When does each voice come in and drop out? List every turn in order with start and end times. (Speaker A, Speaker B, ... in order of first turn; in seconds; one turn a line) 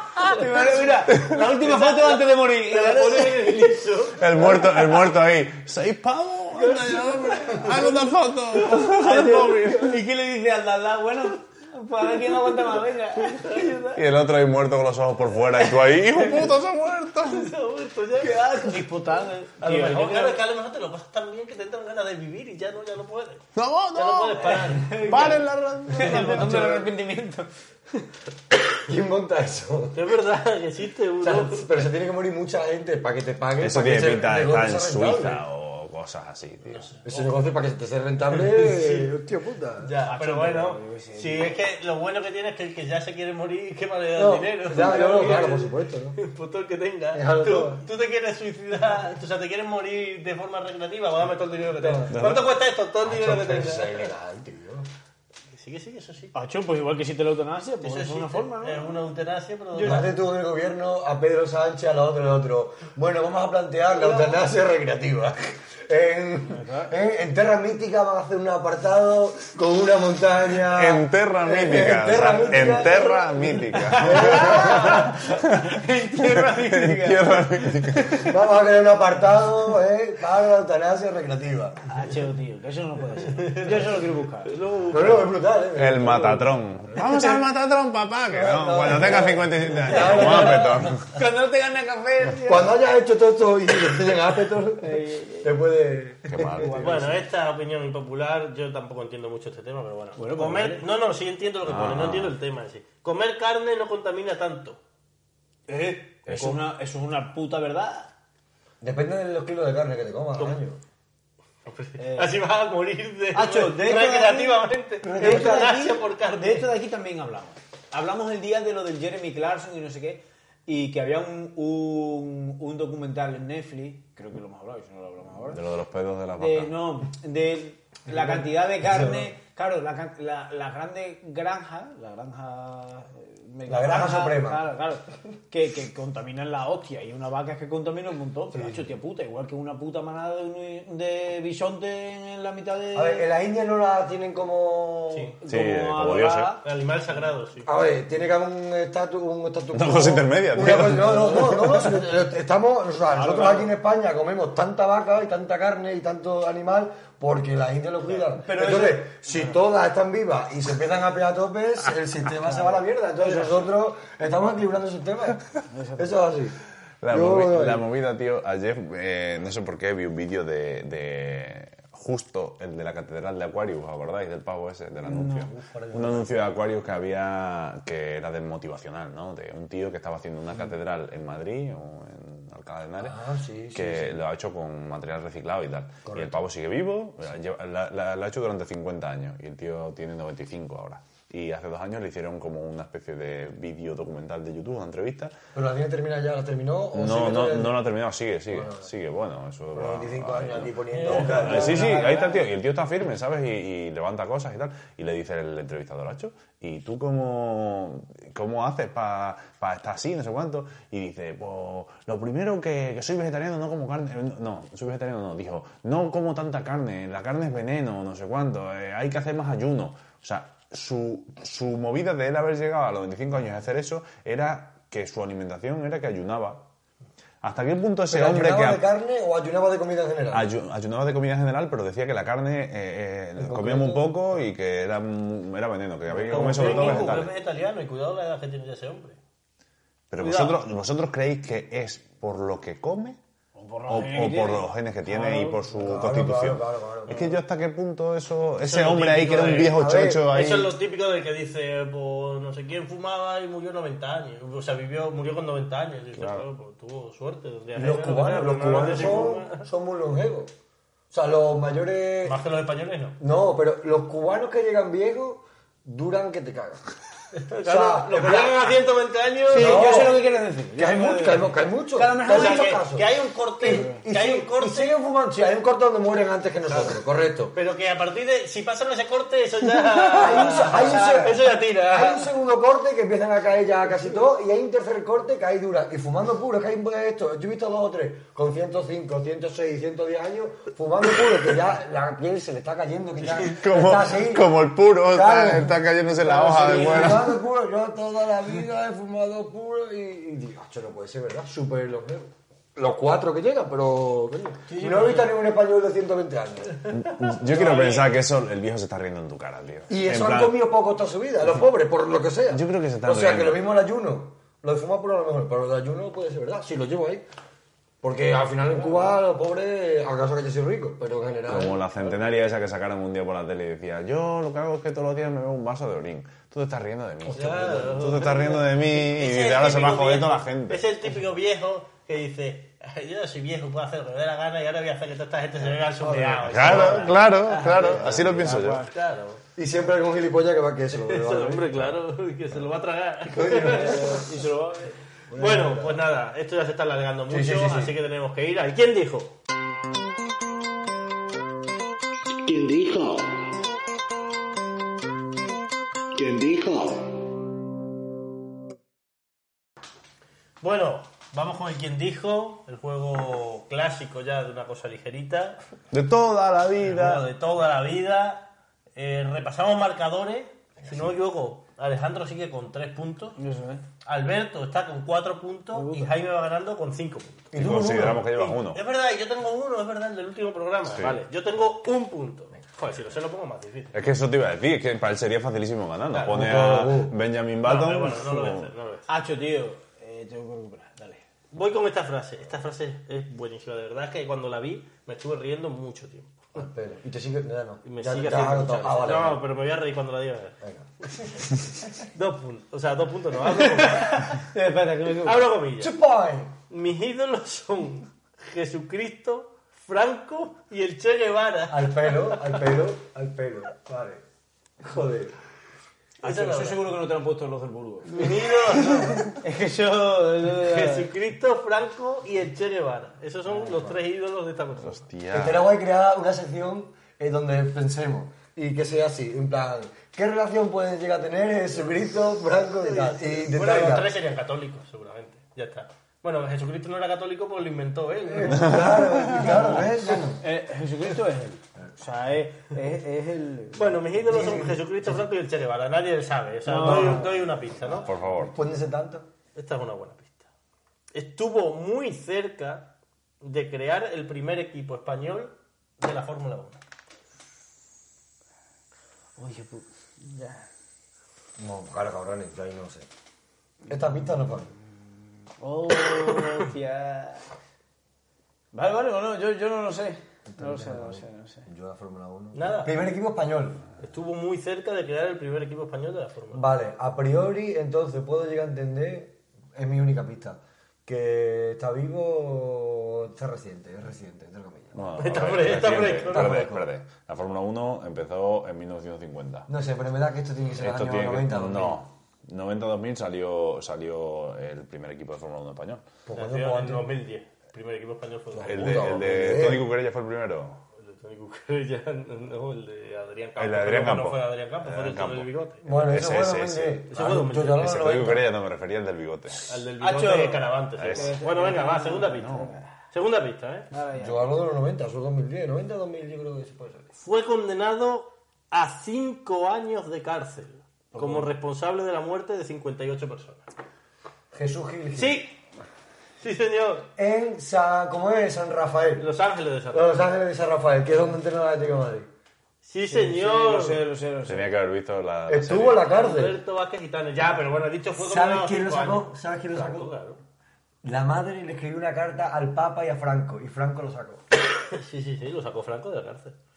Speaker A: 0.2-3.7
Speaker B: 1.2-4.7
Speaker C: 4.1-9.8
Speaker B: 6.7-7.8
Speaker A: 8.7-14.0
Speaker C: 13.9-17.5
Speaker B: 17.2-18.7
Speaker A: 18.2-20.4
Speaker B: 19.6-26.5
Speaker C: 23.6-26.6
Speaker A: 24.7-25.3
Speaker A: 25.9-27.5
Speaker D: 26.1-26.8
Speaker D: 28.8-30.1
Speaker B: 29.9-31.9
Speaker D: 31.2-35.4
Speaker C: 33.6-36.9
Speaker B: 36.6-37.4
Speaker D: 37.0-39.9
Speaker B: 38.3-39.1
Speaker B: 39.8-54.1
Speaker A: 40.0-41.5
Speaker D: 44.1-46.2
Speaker D: 47.1-47.8
Speaker D: 51.8-52.2
Speaker C: 52.1-52.5
Speaker D: 53.0-54.9
Speaker B: 55.5-56.3
Speaker A: 56.3-58.9
Speaker B: 57.8-60.1
Speaker A: 59.7-60.1
Speaker D: 59.8-75.0
Speaker B: 63.9-64.4
Speaker A: 66.5-66.9
Speaker C: 70.7-78.2
Speaker A: 72.1-73.1
Speaker A: 73.7-78.3
Speaker D: 78.2-81.8
Speaker A: 81.9-84.5
Speaker B: 83.4-83.8
Speaker B: 84.5-85.3
Speaker D: 84.9-86.5
Speaker C: 85.7-91.1
Speaker D: 88.3-90.9
Speaker A: 89.7-92.7
Speaker D: 92.4-94.9
Speaker A: 94.8-95.5
Speaker D: 95.4-97.2
Speaker C: 96.3-96.8
Speaker A: 96.6-97.2
Speaker B: 96.8-104.8
Speaker A: 100.2-100.8
Speaker C: 101.6-102.3
Speaker A: 105.7-108.1
Speaker C: 106.3-106.5
Speaker D: 108.8-110.8
Speaker B: 111.6-116.7
Speaker A: 112.0-112.3
Speaker A: 113.3-114.6
Speaker D: 115.0-115.7
Speaker A: 115.2-125.6
Speaker C: 125.5-126.8
Speaker A: 126.4-143.2
Speaker D: 128.1-129.3
Speaker D: 133.7-134.7
Speaker D: 138.5-138.9
Speaker D: 142.9-145.3
Speaker B: 145.1-145.3
Speaker A: 145.4-146.6
Speaker C: 145.4-146.6
Speaker B: 146.6-147.7
Speaker D: 147.6-166.6
Speaker C: 149.7-151.8
Speaker A: 151.3-151.9
Speaker A: 153.1-153.7
Speaker A: 158.4-159.1
Speaker B: 159.3-159.5
Speaker A: 162.4-163.7
Speaker A: 165.7-166.2
Speaker C: 167.0-183.2
Speaker D: 167.1-167.8
Speaker D: 175.1-176.4
Speaker D: 183.0-184.2
Speaker C: 183.7-195.3
Speaker D: 186.1-186.4
Speaker D: 195.5-197.8
Speaker C: 196.9-226.7
Speaker D: 198.5-198.8
Speaker D: 199.7-201.9
Speaker B: 200.9-201.3
Speaker A: 201.0-202.5
Speaker C: 227.4-228.8
Speaker D: 228.1-230.4
Speaker C: 230.3-237.3
Speaker D: 233.4-234.1
Speaker D: 236.1-237.0
Speaker B: 236.2-239.2
Speaker C: 240.1-243.2
Speaker B: 240.2-240.6
Speaker A: 243.6-245.7
Speaker C: 243.9-250.7
Speaker D: 245.8-247.4
Speaker B: 248.6-259.6
Speaker D: 249.5-250.5
Speaker C: 256.1-256.4
Speaker D: 257.7-260.5
Speaker D: 261.1-262.4
Speaker B: 262.2-263.2
Speaker D: 263.2-266.8
Speaker B: 267.3-270.1
Speaker D: 267.6-268.7
Speaker D: 269.5-270.2
Speaker A: 269.5-272.8
Speaker D: 270.8-277.5
Speaker B: 272.3-275.0
Speaker A: 273.7-274.0
Speaker B: 276.7-277.0
Speaker B: 277.5-282.3
Speaker D: 280.1-306.8
Speaker A: 280.1-281.3
Speaker C: 293.4-297.4
Speaker A: 296.3-297.2
Speaker B: 304.7-305.4
Speaker C: 306.9-310.7
Speaker B: 307.2-308.1
Speaker D: 309.9-317.2
Speaker C: 312.5-313.7
Speaker D: 318.0-321.8
Speaker C: 321.5-330.9
Speaker B: 322.0-322.4
Speaker D: 327.3-327.8
Speaker B: 327.3-339.4
Speaker D: 336.0-337.1
Speaker C: 336.4-338.8
Speaker A: 337.1-338.9
Speaker D: 339.6-341.9
Speaker B: 340.9-344.2
Speaker D: 343.3-344.2
Speaker A: 343.5-345.0
Speaker D: 345.3-346.0
Speaker B: 345.3-349.4
Speaker D: 347.3-347.9
Speaker C: 352.4-353.1
Speaker D: 356.2-356.9
Speaker B: 360.6-365.6
Speaker C: 365.9-367.2
Speaker B: 366.8-373.4
Speaker A: 373.4-373.8
Speaker B: 374.0-383.9
Speaker A: 375.7-376.1
Speaker D: 377.5-378.3
Speaker C: 377.5-378.8
Speaker C: 380.9-381.2
Speaker C: 383.9-388.7
Speaker B: 386.1-386.6
Speaker D: 386.3-387.1
Speaker B: 387.6-389.1
Speaker A: 389.1-391.2
Speaker B: 391.5-396.6
Speaker D: 396.5-399.4
Speaker B: 397.8-400.6
Speaker D: 400.6-401.5
Speaker B: 402.0-404.4
Speaker D: 403.4-404.2
Speaker A: 404.3-405.5
Speaker B: 405.2-405.9
Speaker D: 405.8-406.5
Speaker B: 406.7-412.7
Speaker D: 411.7-414.2
Speaker D: 414.8-415.3
Speaker A: 416.2-421.1
Speaker B: 416.2-416.8
Speaker B: 418.1-419.3
Speaker B: 420.6-425.0
Speaker C: 424.8-425.7
Speaker D: 425.3-434.1
Speaker B: 432.8-439.9
Speaker D: 438.3-440.4
Speaker C: 438.6-439.4
Speaker A: 440.4-444.0
Speaker B: 443.8-448.1
Speaker D: 444.3-445.1
Speaker A: 446.6-447.4
Speaker D: 446.8-447.3
Speaker C: 447.9-448.5
Speaker A: 448.3-448.5
Speaker D: 448.5-449.3
Speaker B: 449.6-450.4
Speaker B: 451.1-452.9
Speaker B: 453.4-456.8
Speaker A: 459.4-460.7
Speaker D: 461.6-463.1
Speaker D: 463.9-464.7
Speaker A: 465.6-467.4
Speaker B: 466.1-466.7
Speaker A: 468.7-471.7
Speaker D: 470.5-473.8
Speaker B: 472.5-472.9
Speaker B: 474.0-476.6
Speaker D: 476.5-486.8
Speaker C: 484.9-489.7
Speaker B: 485.2-486.7
Speaker D: 489.7-492.0
Speaker C: 490.8-496.0
Speaker D: 496.3-497.1
Speaker B: 496.3-499.2
Speaker D: 498.5-499.9
Speaker C: 498.6-500.8
Speaker B: 501.0-505.9
Speaker C: 503.6-507.1
Speaker D: 505.8-508.4
Speaker B: 507.1-507.9
Speaker C: 507.7-509.6
Speaker A: 509.5-512.8
Speaker B: 509.7-513.9
Speaker C: 511.0-511.4
Speaker C: 512.2-512.8
Speaker A: 513.9-514.5
Speaker D: 514.2-517.1
Speaker B: 517.1-523.6
Speaker A: 521.1-521.5
Speaker D: 524.5-525.4
Speaker B: 525.1-525.5
Speaker B: 526.4-527.1
Speaker D: 527.2-529.2
Speaker B: 529.2-530.2
Speaker D: 529.9-532.3
Speaker B: 532.8-534.0
Speaker A: 533.0-534.7
Speaker C: 534.5-536.1
Speaker D: 535.5-536.6
Speaker B: 536.1-540.4
Speaker D: 538.2-540.1
Speaker D: 541.0-544.4
Speaker B: 544.9-546.5